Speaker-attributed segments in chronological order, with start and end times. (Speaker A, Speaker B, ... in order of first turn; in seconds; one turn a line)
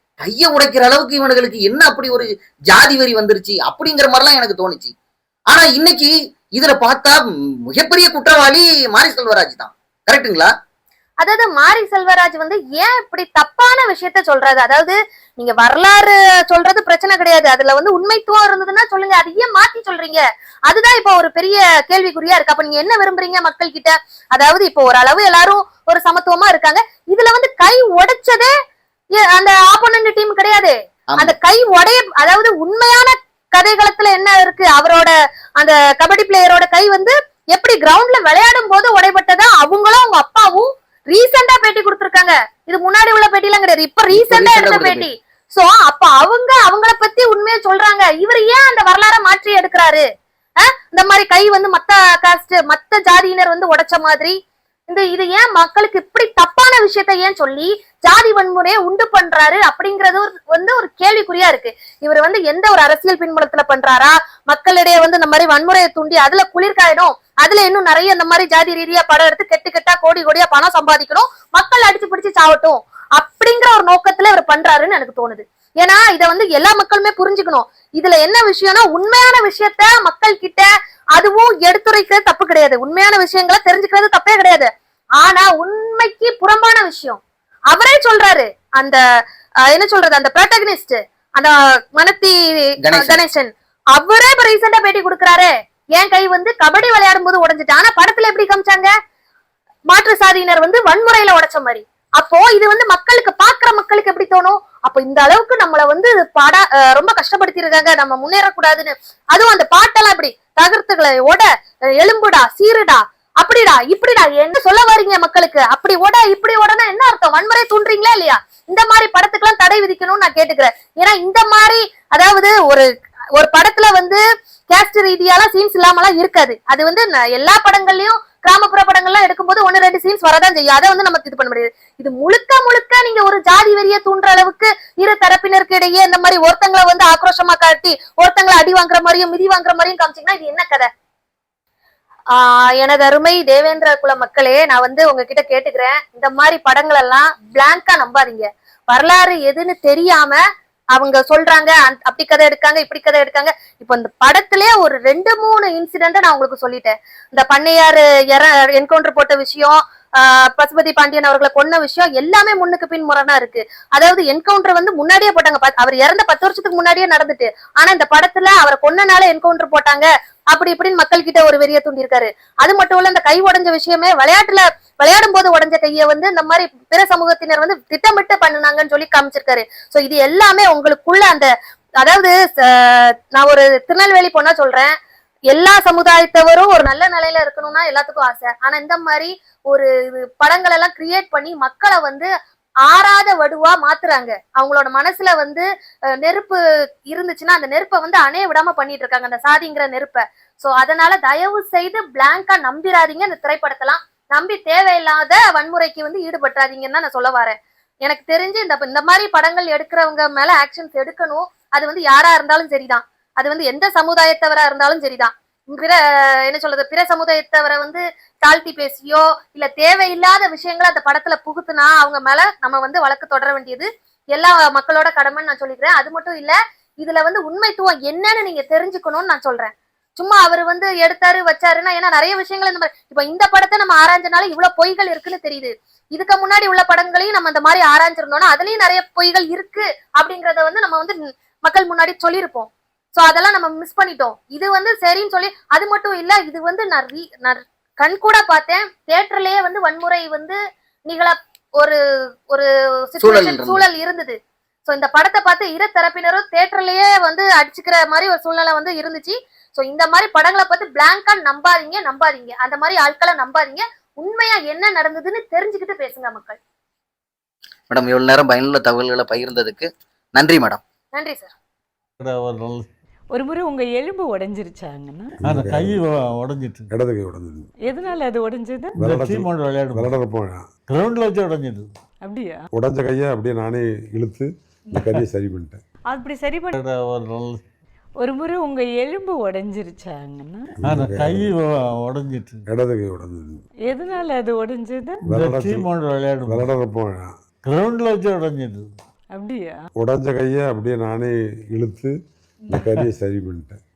Speaker A: 0.2-4.9
Speaker A: 5.5-10.5
Speaker B: 11.2-28.5
Speaker B: 29.1-50.0
Speaker A: 44.1-45.0
Speaker B: 50.6-54.3
Speaker B: 54.9-89.0
Speaker B: 89.6-98.9
Speaker A: 92.8-93.2
Speaker B: 99.9-140.9
Speaker B: 142.3-150.4
Speaker B: 150.9-181.5
Speaker B: 182.0-184.9
Speaker B: 185.5-192.3
Speaker B: 192.8-195.6
Speaker B: 196.2-252.0
Speaker B: 252.5-254.3
Speaker A: 253.2-253.8
Speaker B: 254.9-266.6
Speaker A: 267.9-270.8
Speaker B: 271.1-271.5
Speaker C: 272.2-272.9
Speaker D: 273.3-275.4
Speaker E: 275.4-276.0
Speaker C: 275.4-276.9
Speaker E: 276.9-277.7
Speaker D: 277.9-279.0
Speaker E: 279.0-280.6
Speaker C: 279.0-280.1
Speaker C: 280.9-281.9
Speaker D: 282.2-282.6
Speaker E: 282.7-285.8
Speaker D: 286.1-286.7
Speaker C: 286.7-287.6
Speaker D: 288.2-290.7
Speaker E: 290.8-291.5
Speaker C: 290.8-292.6
Speaker E: 292.7-293.6
Speaker D: 293.9-295.2
Speaker E: 295.2-295.9
Speaker C: 295.3-296.7
Speaker E: 296.5-297.3
Speaker C: 297.6-298.9
Speaker D: 299.3-299.8
Speaker E: 300.0-302.1
Speaker E: 302.7-303.8